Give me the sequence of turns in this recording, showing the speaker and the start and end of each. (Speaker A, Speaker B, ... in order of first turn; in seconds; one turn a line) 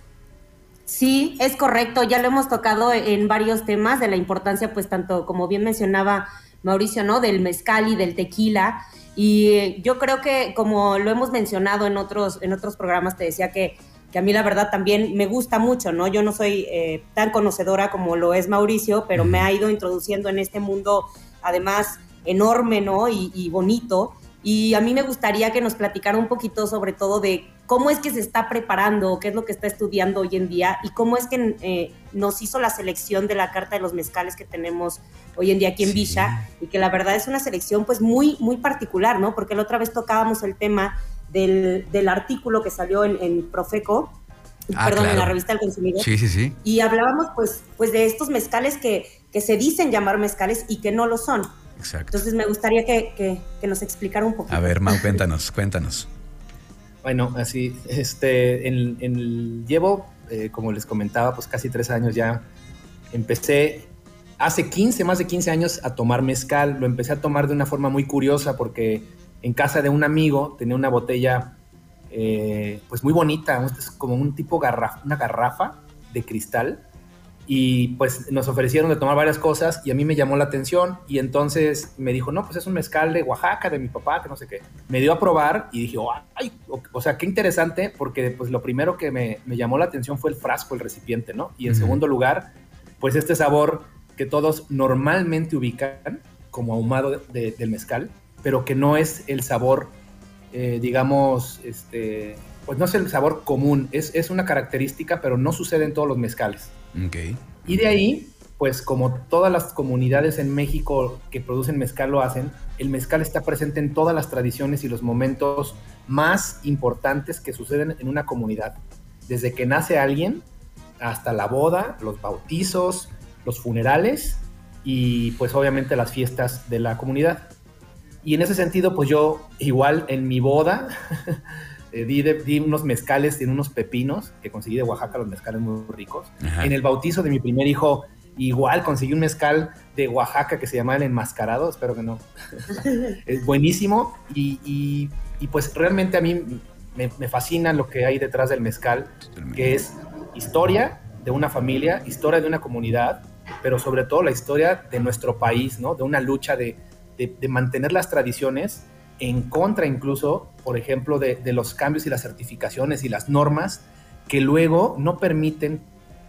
Speaker A: 0.9-44.2
Speaker B: 19.1-19.4
Speaker B: 35.8-36.4
Speaker A: 44.7-46.1
Speaker B: 44.7-45.4
Speaker B: 46.0-46.6
Speaker A: 46.6-51.5
Speaker B: 51.8-52.2
Speaker A: 52.1-55.2
Speaker B: 54.5-56.1
Speaker C: 57.0-62.4
Speaker C: 63.1-71.6
Speaker C: 72.1-76.8
Speaker C: 77.5-100.0
Speaker B: 91.7-92.0
Speaker C: 100.5-106.7
Speaker B: 106.9-107.4
Speaker C: 107.6-120.5
Speaker C: 121.0-127.5
Speaker C: 128.2-131.4
Speaker C: 131.9-165.9
Speaker B: 136.4-136.7
Speaker B: 149.3-149.6